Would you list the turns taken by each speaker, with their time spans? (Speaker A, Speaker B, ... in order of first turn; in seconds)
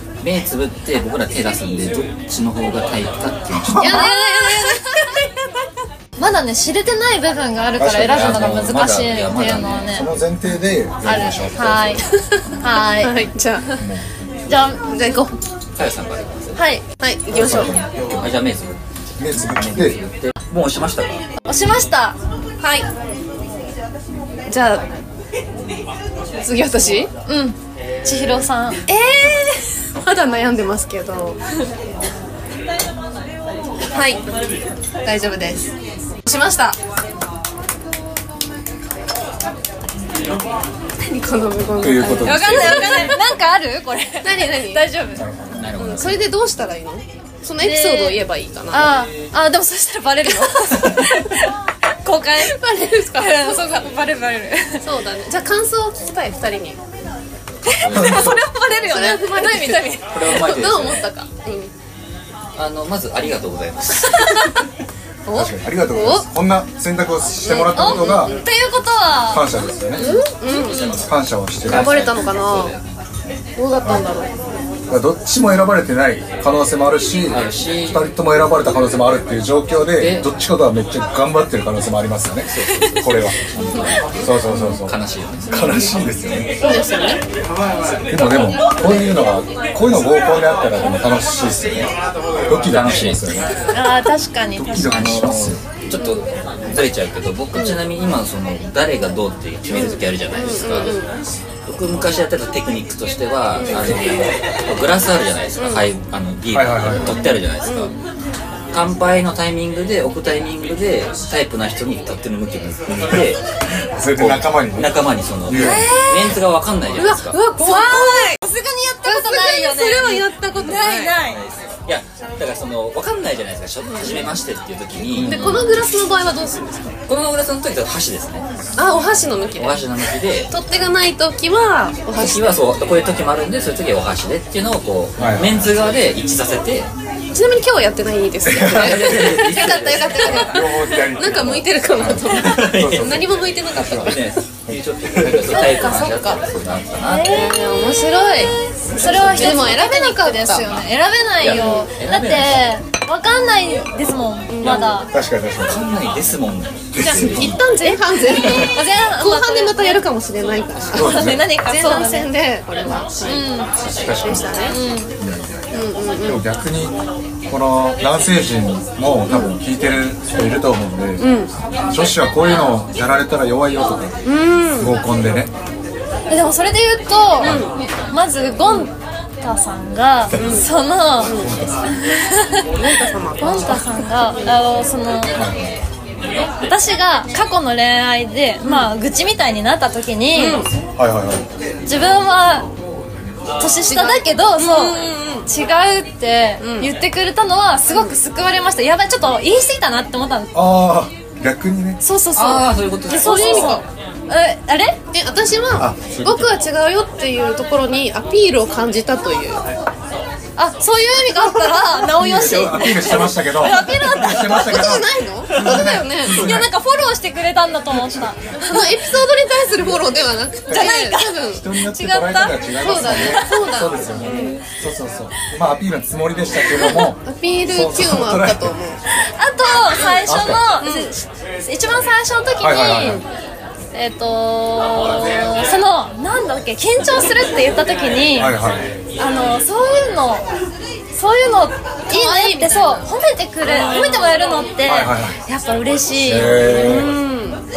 Speaker A: 0.2-4.0, 8.1-9.9, 15.8-16.6, 17.5-21.2, 45.5-46.3, 57.7-58.4, 60.1-61.1, 62.5-64.3, 70.5-71.1, 71.6-72.8, 77.3-78.1, 79.9-80.3, 82.5-86.0, 92.7-93.4, 94.9-101.0, 101.7-108.0, 108.7-113.4, 114.2-117.4, 121.3-125.6, 127.1-128.4, 129.6-130.5, 132.2-136.9, 138.6-140.4, 142.2-147.3, 149.0-149.7, 151.4-152.7, 154.6-155.0, 155.6-157.6, 202.3-203.8
Speaker B: 3.7-4.0, 7.8-8.8, 9.9-12.1, 13.8-14.1, 17.3-18.3, 19.2-20.0, 41.8-43.2, 45.1-45.7, 57.9-58.4, 65.3-68.4, 69.3-70.2, 71.0-72.0, 74.9-85.0, 85.5-86.5, 88.1-91.9, 92.5-93.6, 94.5-95.6, 106.5-107.2, 113.9-115.9, 125.2-125.7, 135.2-135.7, 138.4-139.6, 140.1-145.6, 155.1-155.8, 156.9-157.6, 160.9-161.5, 163.8-164.6, 165.2-171.3, 171.9-174.2, 174.8-175.5, 177.4-177.7, 181.3-181.9, 185.3-185.8, 191.0-191.5, 200.5-202.0, 205.8-206.5, 212.0-216.8, 220.7-228.8, 230.2-230.8, 232.6-233.2, 238.3-238.9, 244.8-245.4, 246.2-247.1
Speaker C: 3.7-5.2, 13.0-13.8, 14.8-15.3, 17.0-17.8, 22.6-22.9, 24.5-24.9, 26.4-27.1, 28.9-31.4, 33.9-34.2, 35.0-35.7, 36.3-36.8, 41.1-43.1, 44.2-44.8, 45.8-49.0, 52.4-53.9, 54.8-56.8, 58.2-61.7, 65.3-66.3, 67.4-68.5, 70.0-71.0, 71.6-72.8, 73.6-74.3, 84.5-84.8, 86.6-87.2, 95.9-96.3, 97.5-97.8, 99.7-101.1, 103.5-104.0, 105.6-105.9, 107.0-107.9, 116.9-118.4, 119.0-121.2, 124.0-124.3, 125.2-127.0, 128.8-129.9, 130.5-132.6, 137.3-144.4, 145.3-146.4, 147.2-150.8, 151.5-151.9, 154.5-155.0, 157.3-163.5, 164.2-164.8, 165.7-166.4, 169.3-169.6, 171.2-171.5, 174.2-175.0, 177.4-177.8, 180.3-180.7, 181.2-181.5, 182.8-184.6, 188.6-188.9, 190.3-190.7, 193.8-195.5, 196.6-196.9, 197.9-198.2, 203.2-203.9, 205.1-209.6, 214.4-216.5, 218.6-221.7, 222.7-224.6, 226.9-229.0, 229.9-230.2, 230.8-231.1, 242.1-243.1, 243.7-244.3, 246.7-247.6
Speaker D: 3.8-5.2, 6.2-10.1, 11.0-12.0, 12.6-13.2, 14.5-15.3, 16.6-16.8, 21.4-22.2, 27.3-28.9, 42.2-45.2, 47.6-54.9, 57.7-60.4, 67.7-69.5, 93.7-95.1, 115.5-116.4, 117.6-121.4, 139.4-140.6, 145.6-146.1, 147.0-147.7, 148.4-155.1, 157.0-160.1, 161.0-162.3, 163.3-163.7, 164.7-165.1, 176.3-181.4, 182.0-182.7, 183.4-185.4, 186.4-190.6, 191.9-192.7, 193.6-200.6, 202.0-205.0, 210.6-215.0, 216.3-218.8, 220.7-224.6, 226.8-227.1, 229.2-233.2, 233.9-238.5, 239.2-240.5, 241.1-247.0